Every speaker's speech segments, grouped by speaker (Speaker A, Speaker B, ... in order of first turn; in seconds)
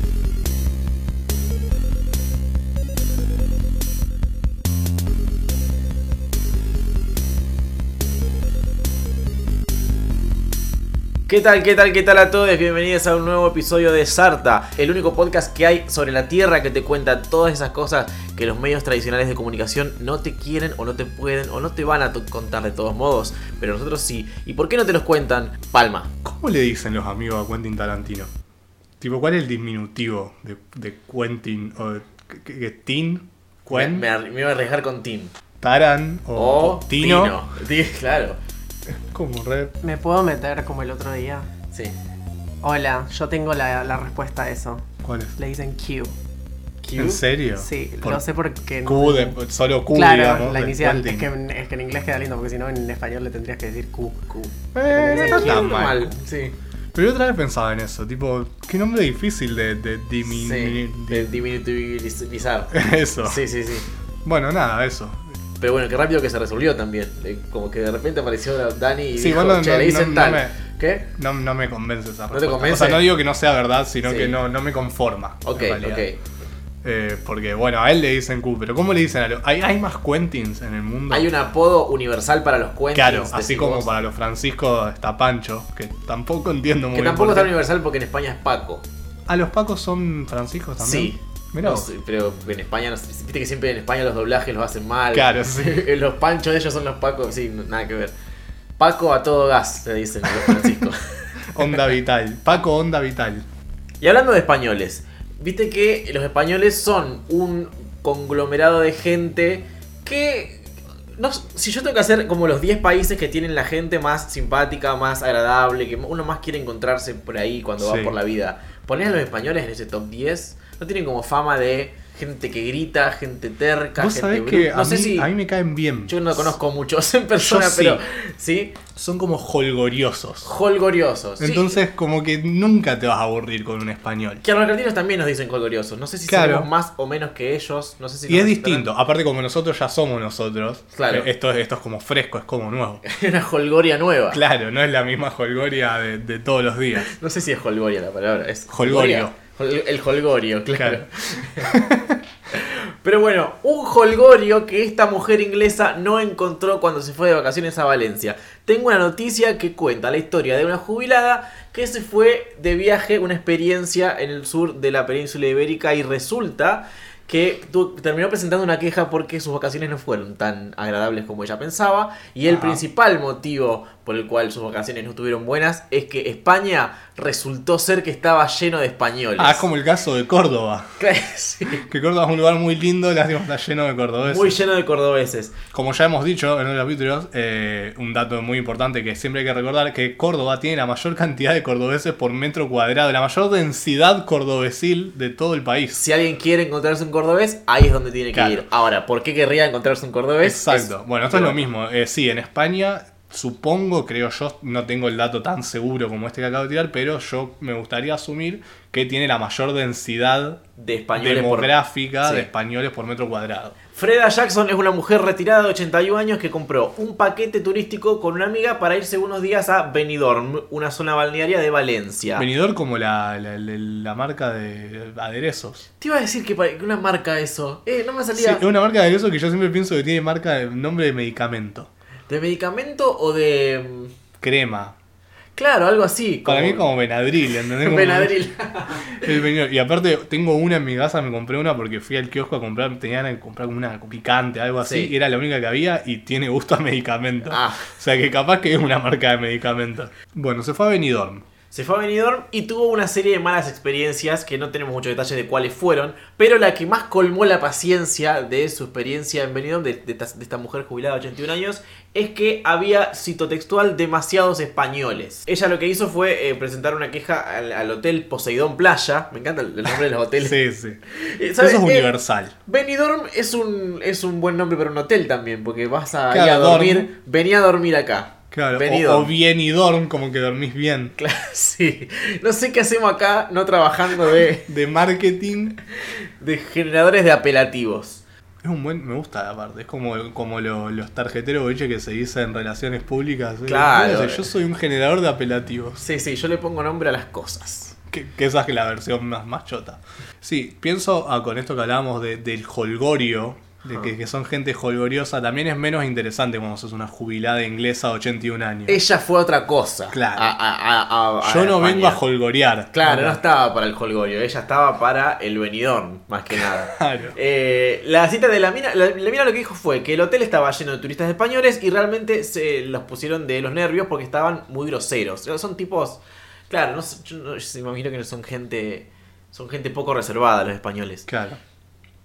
Speaker A: 11.3-26.1, 33.7-35.3, 36.4-38.4, 46.8-47.2, 54.3-56.5, 60.3-63.9, 65.6-71.1, 72.3-73.0, 74.0-74.4, 75.4-76.2, 81.1-83.9, 86.9-88.8, 90.8-98.1, 98.8-101.7, 104.0-125.3, 126.1-128.8, 130.4-131.8, 134.4-138.9, 140.9-141.3, 143.0-144.4, 147.0-151.7, 152.5-179.7, 181.0-181.8, 184.2-185.6, 196.0-201.6, 210.8-212.5, 213.9-222.5, 226.0-228.6, 232.3-234.1, 235.6-236.9, 237.4-239.3, 244.8-245.1, 247.5-247.9, 251.7-270.6, 271.1-272.1, 272.7-279.3, 281.2-284.7, 286.4-288.2, 293.7-294.4, 296.0-297.9, 303.9-304.1, 308.9-312.2, 312.9-331.3
Speaker B: 26.2-28.3, 29.0-34.1, 35.6-37.4, 38.9-39.7, 45.0-45.4, 47.0-48.2, 48.8-51.3, 54.8-56.1, 56.9-61.4, 62.7-63.5, 64.2-65.2, 69.2-70.6, 71.2-76.0, 76.8-81.3, 82.9-87.5, 89.3-91.9, 95.1-95.8, 101.5-103.5, 117.8-118.2, 124.0-126.6, 127.4-128.0, 128.9-130.5, 131.4-134.4, 136.3-136.7, 138.3-143.0, 144.3-147.1, 148.7-149.3, 150.8-151.1, 151.6-152.2, 172.5-172.8, 179.4-181.0, 181.8-184.6, 185.7-196.0, 198.3-198.7, 200.4-210.6, 211.2-213.8, 222.4-225.9, 228.3-231.9, 234.4-235.0, 236.4-238.3, 239.0-251.4, 270.4-271.0, 271.6-272.6, 276.3-277.1, 278.5-281.1, 284.7-285.8, 288.6-296.0, 298.1-309.0, 310.1-310.5, 311.4-313.4, 316.5-317.4, 331.3-331.6
Speaker C: 39.8-41.5, 42.6-46.2, 47.5-49.4, 49.9-54.2, 55.0-55.8